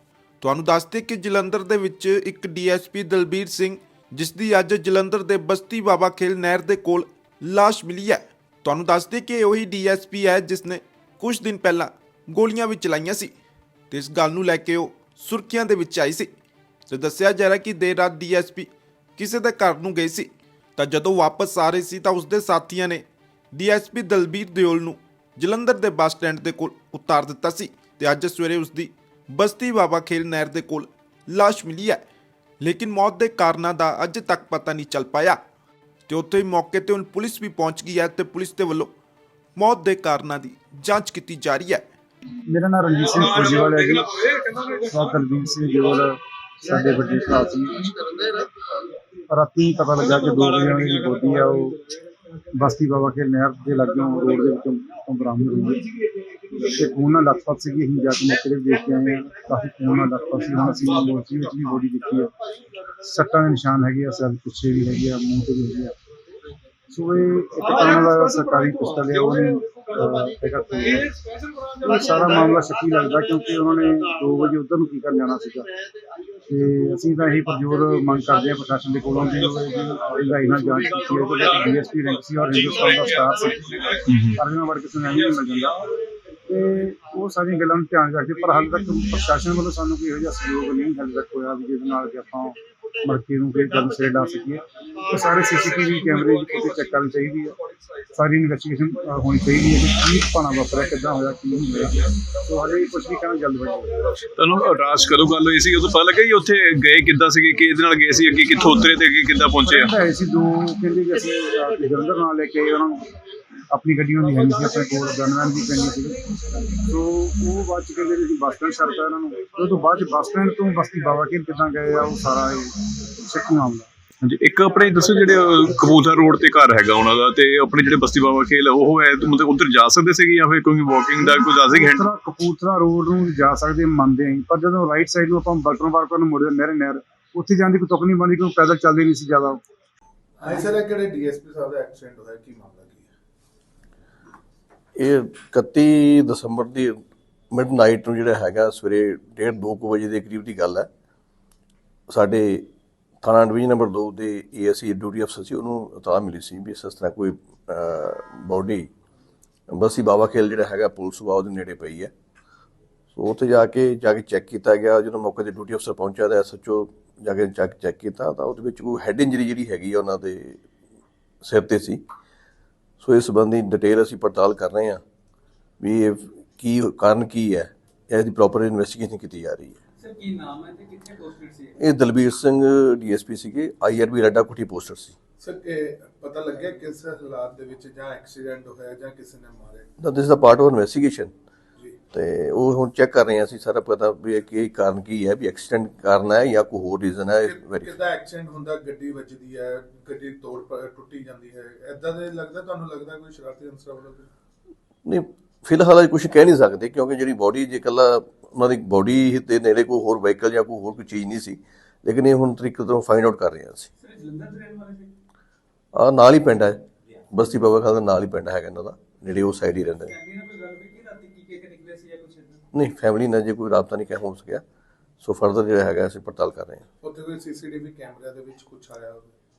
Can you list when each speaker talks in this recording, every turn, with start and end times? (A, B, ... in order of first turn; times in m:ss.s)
0:00.4-0:13.3 A
0:13.9-0:16.3 A
0:16.9-0:32.0 A
0:32.6-0:35.4 A
0:36.1-0:38.9 A
0:39.6-0:41.8 A
0:42.5-0:44.1 B
0:44.7-0:47.8 B
0:49.3-0:51.8 B
0:52.6-0:55.8 B
0:56.7-1:02.3 B
1:03.0-1:05.9 B
1:06.9-1:11.1 B
1:11.8-1:15.7 B
1:16.5-1:23.8 B
1:24.1-1:24.4 C
1:24.3-1:25.8 B
1:26.5-1:37.5 B
1:38.1-1:44.0 B
1:44.4-1:49.9 C
1:49.6-1:53.0 B
1:53.7-1:56.2 B
1:56.8-2:03.9 B
2:04.2-2:12.0 C
2:11.2-2:19.6 B
2:20.4-2:23.1 D
2:25.0-2:27.0 E
2:27.5-2:30.9 E
2:32.1-2:32.7 E
2:33.2-2:38.9 E
2:39.7-2:42.1 E
2:43.1-2:50.6 E
2:51.4-2:52.0 E
2:53.0-2:55.0 E
2:55.8-2:59.8 E
3:00.0-3:01.7 F
3:01.8-3:05.2 E
3:05.4-3:09.9 D
3:10.0-3:11.3 E
3:12.1-3:17.9 E
3:17.4-3:24.3 D
3:25.0-3:33.9 E
3:34.0-3:35.1 F
3:35.9-3:40.1 E
3:39.9-3:42.6 F
3:42.7-3:44.6 E
3:45.2-3:46.8 E
3:47.0-3:49.4 D